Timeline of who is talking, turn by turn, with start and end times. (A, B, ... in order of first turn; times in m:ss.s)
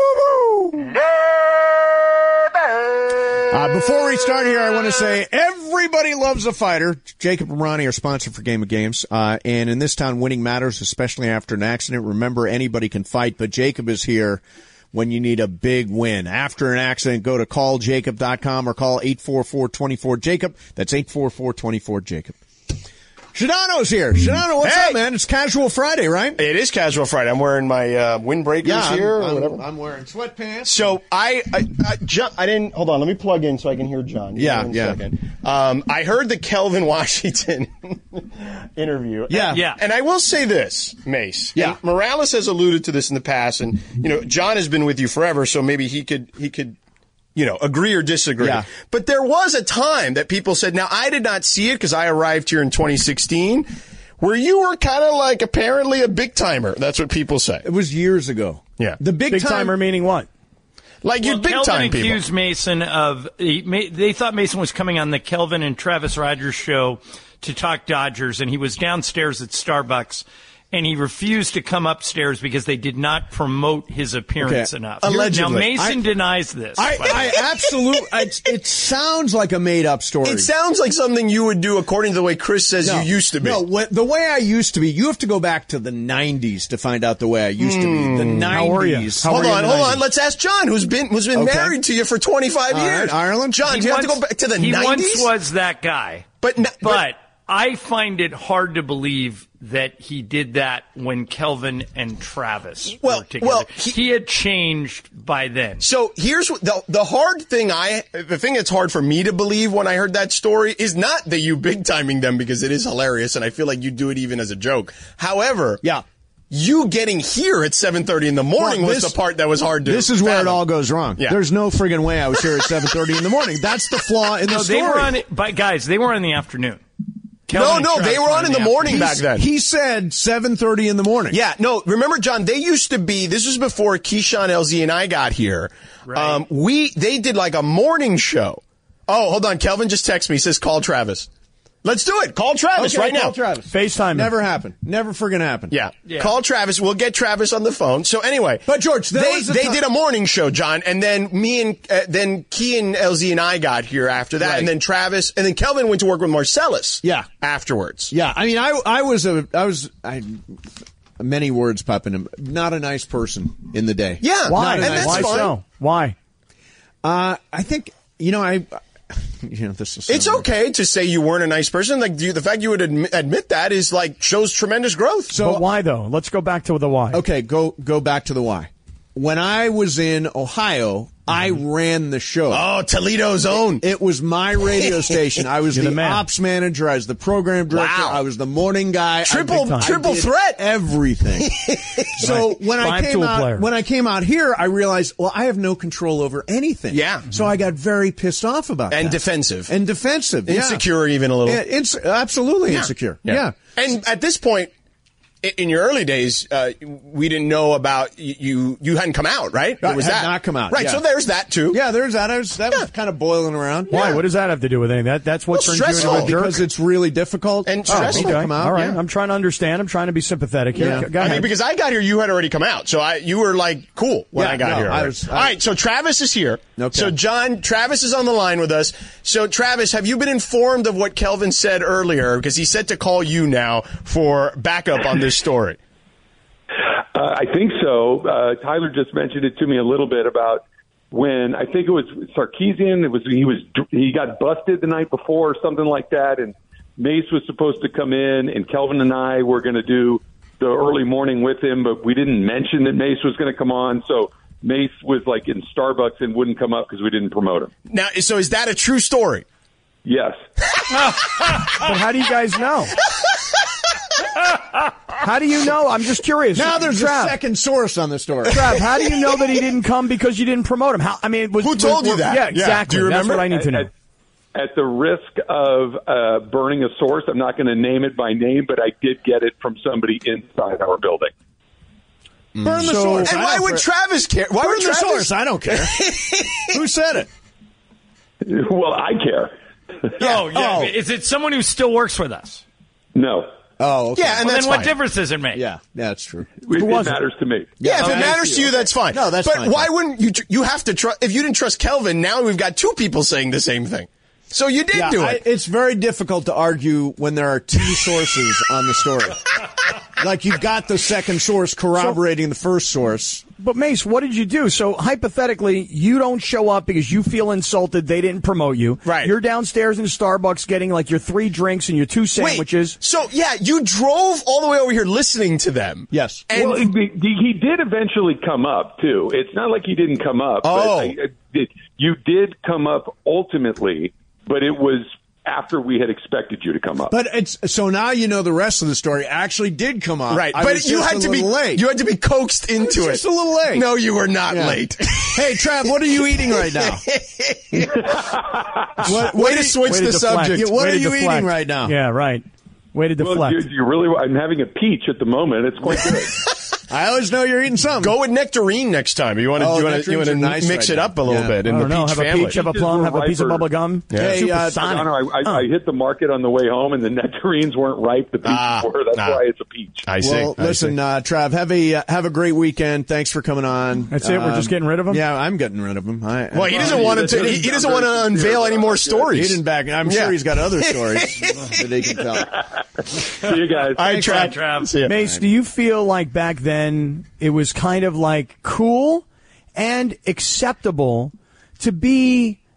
0:03.5-0:22.4 A
0:23.3-0:26.4 A
0:24.6-0:25.0 B
0:26.4-0:29.6 B
0:28.6-0:30.9 A
0:30.6-0:46.8 B
0:34.3-0:35.0 A
0:39.3-0:39.6 A
0:39.5-0:39.8 C
0:47.4-0:53.7 B
0:48.4-0:48.6 A
0:54.2-0:57.6 B
0:57.6-0:59.7 A
0:59.3-1:00.3 D
1:01.0-1:02.2 B
1:01.2-1:17.4 C
1:14.4-1:16.0 A
1:15.0-1:15.7 B
1:16.8-1:20.5 A
1:20.2-1:23.6 B
1:22.8-1:30.0 A
1:27.6-1:28.5 B
1:28.5-1:29.6 D
1:29.2-1:35.3 B
1:31.3-1:31.8 A
1:32.7-1:33.7 A
1:33.7-1:36.3 C
1:36.4-1:37.0 B
1:36.8-1:45.8 C
1:43.0-1:44.0 B
1:45.8-1:55.8 B
1:56.5-2:00.6 B
1:58.6-1:59.2 A
1:59.8-2:05.2 A
2:04.4-2:06.8 C
2:07.5-2:09.2 C
2:07.5-2:09.4 B
2:08.9-2:11.4 A
2:11.3-2:21.3 B
2:16.1-2:16.4 C
2:21.8-2:23.4 B
2:22.8-2:25.7 A
2:23.7-2:24.3 D
2:25.7-2:38.1 B
2:26.1-2:26.3 C
2:28.7-2:29.8 A
2:34.4-2:34.7 A
2:37.0-2:37.3 A
2:38.1-2:40.6 A
2:41.2-2:45.5 A
2:44.2-2:45.5 B
2:44.5-2:46.1 D
2:47.0-2:50.4 A
2:50.1-2:55.3 B
2:55.3-2:55.6 A
2:55.3-2:57.2 D
2:57.1-3:02.7 A
3:02.5-3:03.8 B
3:03.6-3:11.5 A
3:04.6-3:05.1 B
3:05.7-3:06.2 D
3:07.7-3:08.2 B
3:09.2-3:10.7 B
3:09.3-3:10.0 D
3:11.4-3:12.4 B
3:12.1-3:20.8 A
3:12.7-3:13.7 D
3:16.9-3:17.3 B
3:18.9-3:19.7 B
3:20.4-3:21.6 B
3:21.4-3:23.6 A
3:22.7-3:24.7 B
3:25.4-3:31.8 B
3:29.8-3:31.0 A
3:31.7-3:34.0 A
3:33.9-3:34.2 B
3:33.9-3:36.6 D
3:35.5-3:36.3 B
3:36.0-3:39.0 A
3:37.6-3:38.9 B
3:37.9-3:41.5 D
3:40.8-3:41.4 A
3:40.8-3:55.8 B
3:44.3-3:45.5 A
3:46.8-3:47.1 A
3:57.1-4:17.7 E
4:17.9-4:19.4 B
4:20.0-4:20.4 E
4:21.8-4:22.9 D
4:25.2-4:27.4 D
4:26.5-4:28.7 A
4:28.4-4:33.9 D
4:31.6-4:33.5 B
4:33.5-4:33.9 E
4:34.5-4:41.3 E
4:42.5-4:46.8 B
4:42.6-4:43.8 A
4:42.8-4:43.3 D
4:44.6-4:47.3 A
4:48.4-4:49.5 E
4:50.2-4:52.6 C
4:50.2-4:50.4 B
4:50.5-4:50.9 A
4:53.1-4:53.5 E
4:53.8-4:54.5 A
4:54.1-4:54.9 B
4:54.4-4:55.6 C
4:55.5-4:56.5 A
4:56.6-4:57.8 E
4:56.7-4:57.2 D
4:57.8-4:59.9 A
4:57.8-5:05.4 B
4:58.0-4:58.3 C
5:04.9-5:09.4 A
5:10.2-5:13.4 A
5:13.6-5:23.0 D
5:19.0-5:19.3 B
5:22.4-5:26.9 B
5:26.1-5:26.5 A
5:26.5-5:37.1 E
5:30.6-5:31.1 B
5:37.1-5:41.8 A
5:40.3-5:48.2 B
5:42.8-5:43.9 A
5:44.4-5:47.0 A
5:49.0-5:50.7 B
5:49.0-5:51.9 A
5:49.8-5:53.7 D
5:53.2-5:56.4 E
5:56.9-5:58.2 A
5:58.0-6:02.6 B
5:59.6-6:01.5 A
6:01.6-6:05.6 D
6:02.4-6:03.7 E
6:04.1-6:04.4 B
6:04.1-6:04.9 A
6:04.7-6:10.1 E
6:08.4-6:09.4 B
6:10.0-6:11.0 B
6:10.2-6:17.7 A
6:14.1-6:15.2 D
6:16.5-6:21.8 B
6:16.6-6:19.3 E
6:19.3-6:22.6 A
6:23.4-6:24.3 E
6:23.9-6:25.1 B
6:24.0-6:24.9 C
6:25.0-6:32.6 D